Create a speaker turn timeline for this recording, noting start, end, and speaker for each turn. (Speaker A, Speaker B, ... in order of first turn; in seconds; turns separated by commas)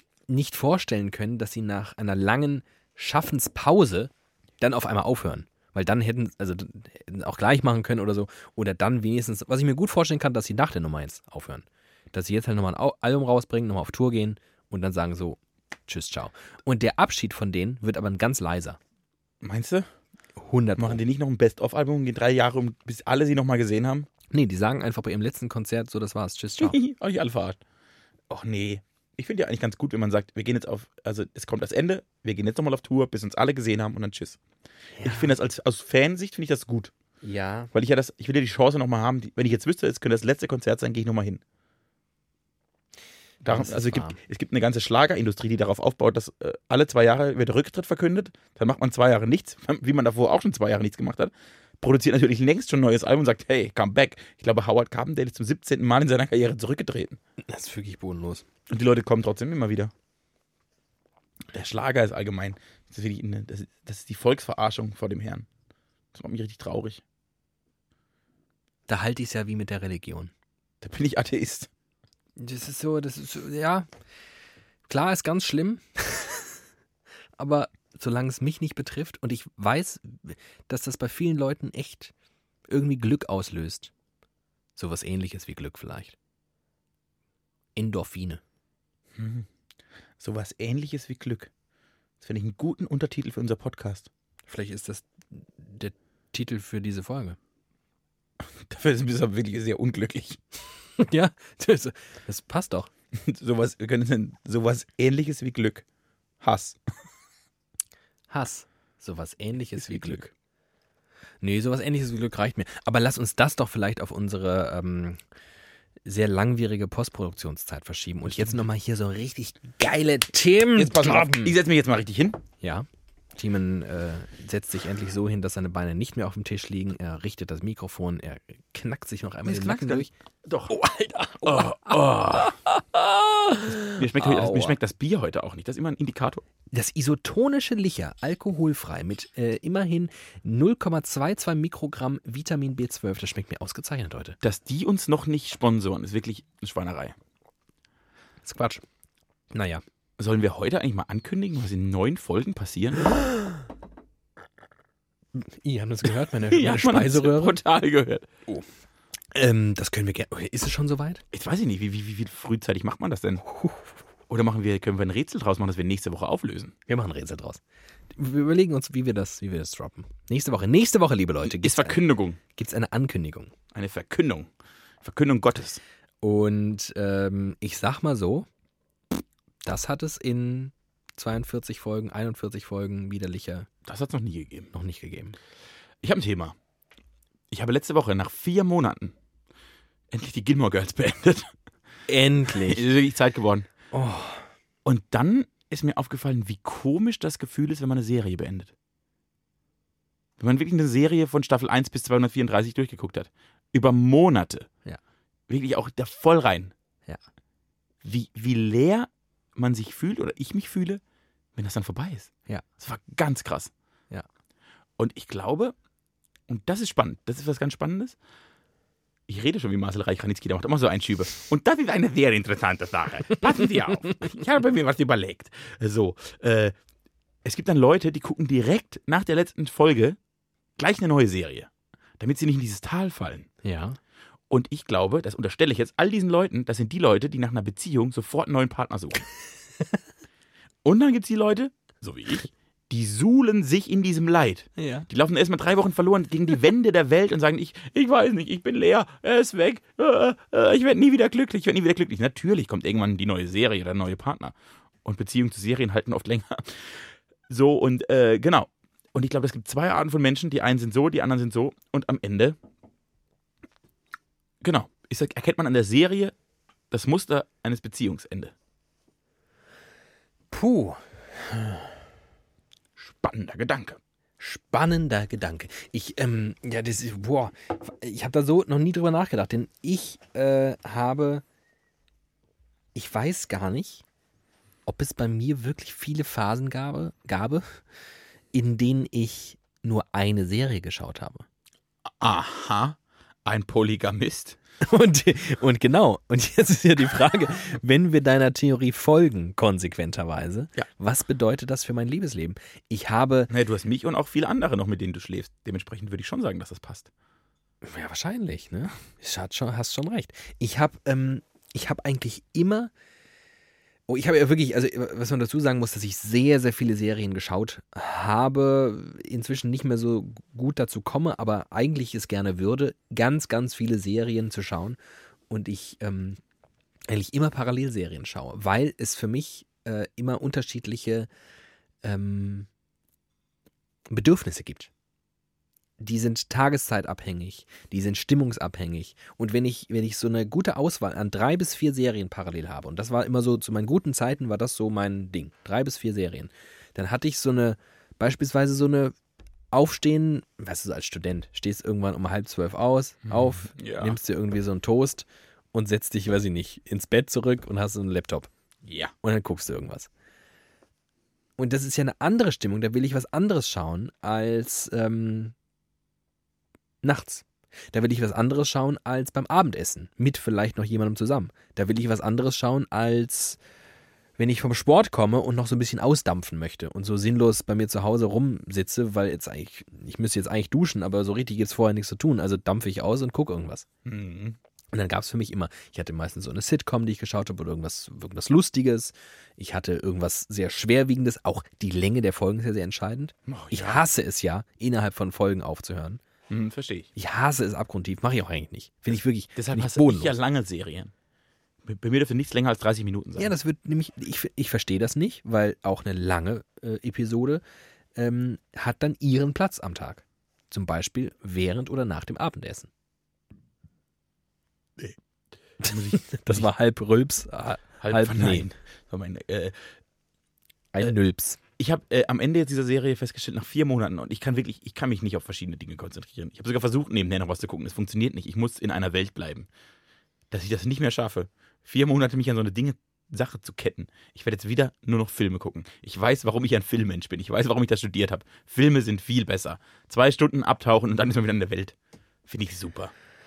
Speaker A: 0.3-18.8, Speaker B: 19.4-19.9, Speaker A: 20.4-21.0, Speaker B: 20.8-24.1, Speaker A: 24.3-26.8, Speaker B: 26.6-27.6, Speaker B: 28.3-34.4, Speaker A: 35.0-35.3, Speaker B: 35.0-36.9, Speaker A: 37.2-37.7, Speaker B: 37.7-41.4, Speaker B: 43.4-57.2, Speaker A: 43.5-44.2, Speaker A: 57.4-58.5, Speaker B: 58.7-59.9, Speaker B: 61.5-65.5, Speaker B: 66.1-67.0, Speaker A: 68.9-70.3, Speaker B: 70.8-71.7, Speaker A: 72.4-73.9, Speaker A: 74.9-76.6, Speaker A: 77.4-82.1, Speaker A: 82.7-83.9, Speaker A: 84.8-86.2, Speaker A: 87.8-88.4, Speaker B: 89.2-89.5, Speaker B: 90.2-91.5, Speaker B: 92.2-94.1, Speaker A: 94.5-97.4, Speaker B: 98.6-100.4, Speaker A: 101.0-102.9, Speaker B: 103.1-105.8, Speaker B: 106.4-106.8, Speaker A: 108.3-110.2, Speaker B: 109.8-110.3, Speaker A: 111.4-115.2, Speaker A: 116.0-121.6, Speaker B: 120.8-122.4, Speaker A: 122.6-130.1, Speaker B: 129.4-130.8, Speaker A: 130.7-134.8, Speaker B: 131.4-132.6, Speaker B: 133.7-136.4, Speaker A: 136.7-144.4, Speaker B: 144.4-147.2, Speaker A: 148.4-148.8, Speaker A: 149.5-149.8, Speaker B: 150.2-153.1, Speaker A: 155.3-157.6, Speaker B: 156.5-158.4, Speaker A: 159.3-161.2, Speaker B: 161.3-163.4, Speaker B: 164.3-166.7, Speaker A: 166.9-167.6, Speaker A: 168.1-173.5, Speaker B: 171.4-172.4, Speaker B: 173.7-174.5, Speaker B: 175.0-175.8, Speaker A: 176.2-178.5, Speaker A: 179.6-183.7, Speaker B: 183.8-184.7, Speaker A: 184.7-185.4, Speaker B: 186.0-186.6, Speaker B: 187.5-189.2, Speaker B: 190.1-191.5, Speaker A: 192.1-192.9, Speaker B: 192.5-193.7, Speaker A: 193.9-194.5, Speaker B: 194.8-198.7, Speaker B: 200.4-204.7, Speaker B: 205.5-206.7, Speaker B: 208.0-211.0, Speaker B: 211.6-213.7, Speaker B: 215.0-215.8, Speaker B: 216.5-218.2, Speaker B: 219.3-226.7, Speaker B: 227.4-230.2, Speaker B: 230.8-233.5, Speaker A: 233.6-234.0, Speaker B: 234.5-239.2, Speaker B: 240.8-262.6, Speaker A: 244.8-245.1, Speaker B: 264.6-266.3, Speaker B: 266.9-268.5, Speaker A: 270.5-271.8, Speaker B: 273.0-274.0, Speaker A: 274.4-281.4, Speaker A: 282.9-284.0, Speaker A: 284.9-287.8, Speaker A: 288.5-291.4, Speaker B: 292.2-294.6, Speaker A: 294.8-303.5, Speaker B: 303.5-307.1, Speaker A: 307.8-312.9, Speaker A: 314.1-325.0, Speaker A: 325.5-326.4, Speaker A: 327.1-331.3, Speaker A: 332.0-332.7, Speaker A: 334.1-334.9, Speaker A: 336.0-349.1, Speaker A: 349.7-358.5, Speaker B: 353.3-354.2, Speaker B: 358.9-359.1, Speaker A: 359.2-360.1, Speaker A: 361.6-365.6, Speaker A: 367.0-373.6, Speaker A: 374.4-383.9, Speaker B: 384.1-384.6, Speaker A: 384.9-396.2, Speaker B: 393.5-394.0, Speaker B: 396.5-397.1, Speaker A: 397.2-400.4, Speaker B: 399.6-401.1, Speaker B: 401.9-403.5, Speaker A: 403.4-407.6, Speaker A: 408.2-412.9, Speaker B: 415.8-416.7, Speaker A: 415.9-418.7, Speaker B: 418.0-419.7, Speaker A: 420.9-421.6, Speaker B: 421.8-429.7, Speaker B: 430.5-441.9, Speaker B: 442.5-443.1